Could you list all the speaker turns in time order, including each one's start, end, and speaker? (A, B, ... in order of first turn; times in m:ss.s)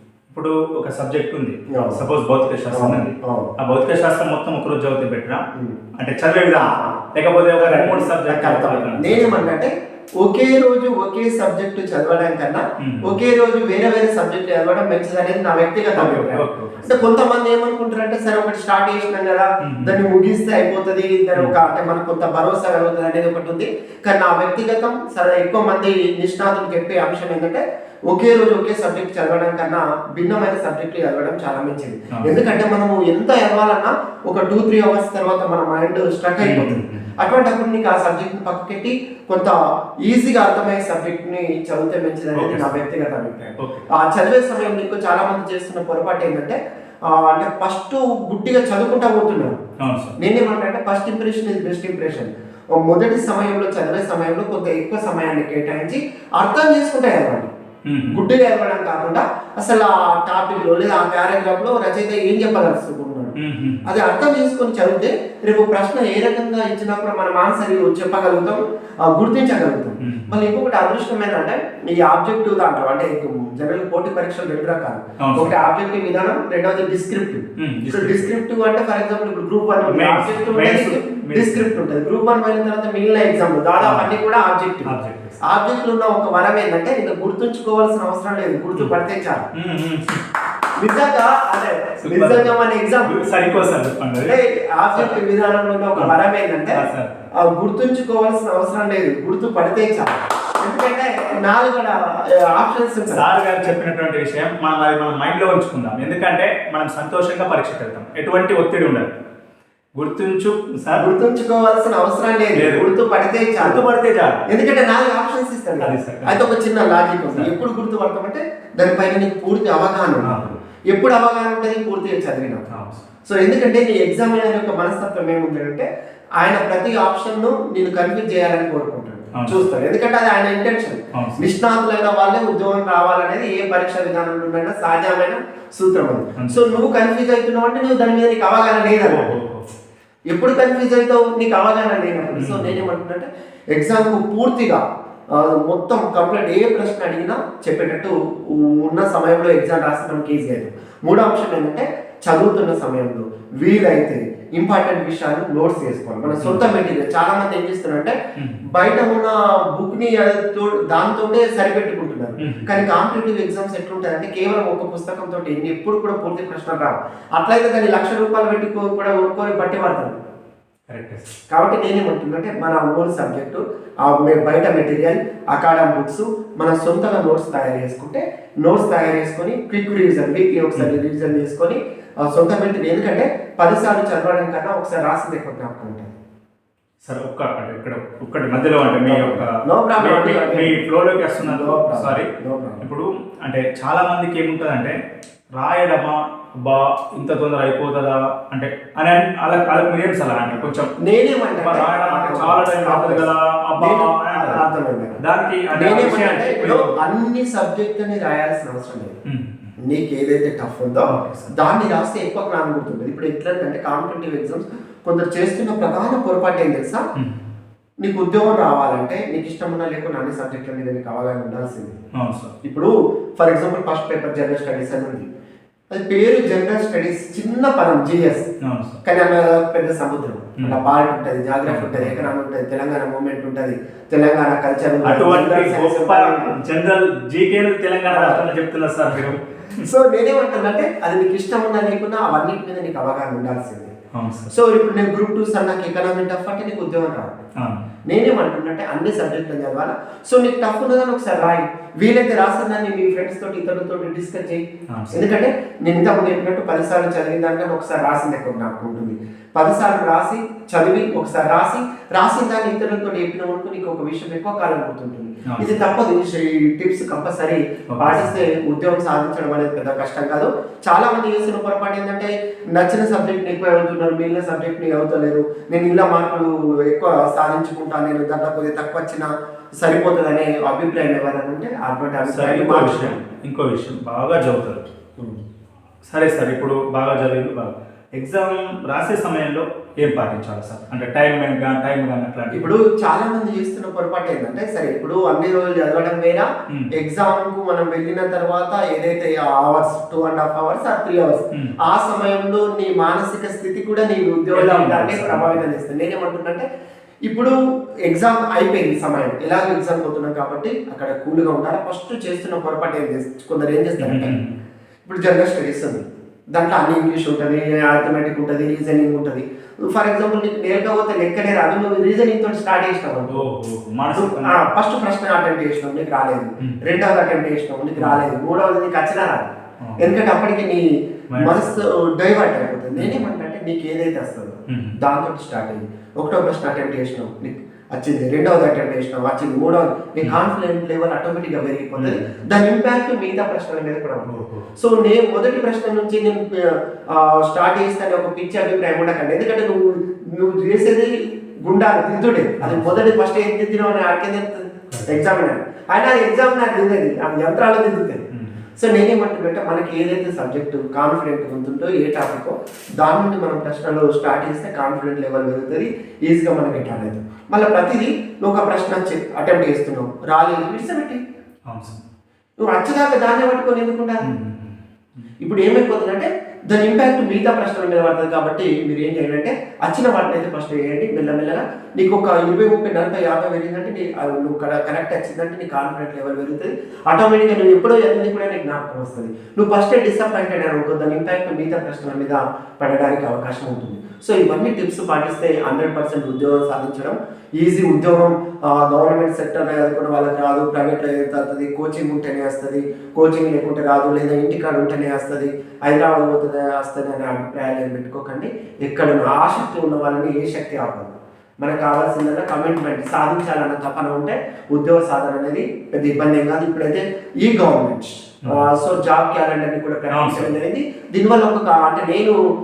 0:00.3-0:05.4 A
0:01.7-0:02.0 B
0:02.7-0:03.5 B
0:06.0-0:09.5 A
0:06.5-0:06.9 B
0:07.6-0:49.6 B
0:12.8-0:13.1 A
0:16.0-0:17.1 A
0:19.6-0:19.9 A
0:36.4-0:37.1 A
0:42.4-0:42.8 A
0:43.6-0:43.9 A
0:49.8-0:50.2 A
0:50.2-0:57.5 B
0:57.9-0:58.2 A
0:58.1-1:29.5 B
1:03.4-1:03.9 A
1:10.0-1:10.3 A
1:15.2-1:15.5 A
1:17.6-1:18.3 A
1:19.8-1:21.7 A
1:23.8-1:24.1 A
1:24.8-1:25.4 A
1:29.5-1:30.2 A
1:30.8-1:36.9 B
1:32.0-1:34.4 A
1:34.9-1:35.2 A
1:36.7-1:37.3 A
1:37.4-1:43.3 B
1:43.1-1:49.1 A
1:50.0-1:51.0 A
1:50.9-1:53.9 B
1:52.5-1:52.9 A
1:53.6-1:54.4 A
1:54.5-2:02.7 B
1:55.8-1:56.4 A
2:00.2-2:00.5 A
2:02.7-2:03.0 A
2:03.2-2:05.9 B
2:06.4-2:19.3 B
2:09.3-2:09.6 A
2:11.1-2:11.4 A
2:19.0-2:19.7 A
2:20.3-2:38.1 B
2:22.4-2:22.8 A
2:36.4-2:36.7 A
2:38.7-2:50.2 B
2:42.4-2:42.7 A
2:50.9-2:51.3 A
2:51.5-3:06.1 B
3:07.0-3:12.3 A
3:09.0-3:10.8 B
3:11.4-3:12.8 B
3:12.8-3:15.0 A
3:15.6-3:20.9 A
3:20.5-3:25.2 B
3:21.6-3:24.7 A
3:25.2-3:26.9 A
3:25.7-3:29.2 B
3:29.3-3:29.7 A
3:29.8-3:37.0 B
3:31.1-3:31.5 A
3:38.0-3:42.0 B
3:42.1-3:42.5 A
3:42.6-3:45.2 B
3:45.9-3:48.4 B
3:48.6-3:49.0 A
3:49.0-3:56.5 B
3:51.6-3:52.3 A
3:55.0-3:59.8 A
3:58.1-3:58.5 B
3:59.8-4:03.9 B
4:04.1-4:04.5 A
4:04.5-4:07.3 B
4:07.6-4:07.8 A
4:08.1-4:43.2 B
4:14.9-4:15.2 A
4:25.5-4:25.8 A
4:27.9-4:28.3 A
4:42.3-4:44.8 A
4:46.1-4:52.7 A
4:52.5-5:06.6 B
5:04.5-5:05.6 A
5:07.2-5:07.5 B
5:08.0-5:14.3 B
5:14.0-5:14.5 A
5:15.0-5:23.4 B
5:23.3-5:24.7 A
5:24.1-5:51.1 B
5:28.0-5:28.2 A
5:29.8-5:30.1 A
5:31.3-5:31.7 A
5:33.0-5:33.2 A
5:34.7-5:35.0 A
5:42.0-5:42.3 A
5:44.3-5:44.7 A
5:51.6-5:58.2 B
5:52.6-5:53.0 A
5:54.9-5:55.2 A
5:58.8-6:11.2 B
6:11.7-6:12.0 A
6:12.6-6:14.2 B
6:14.2-6:15.3 A
6:15.4-7:02.4 B
7:00.1-7:00.5 A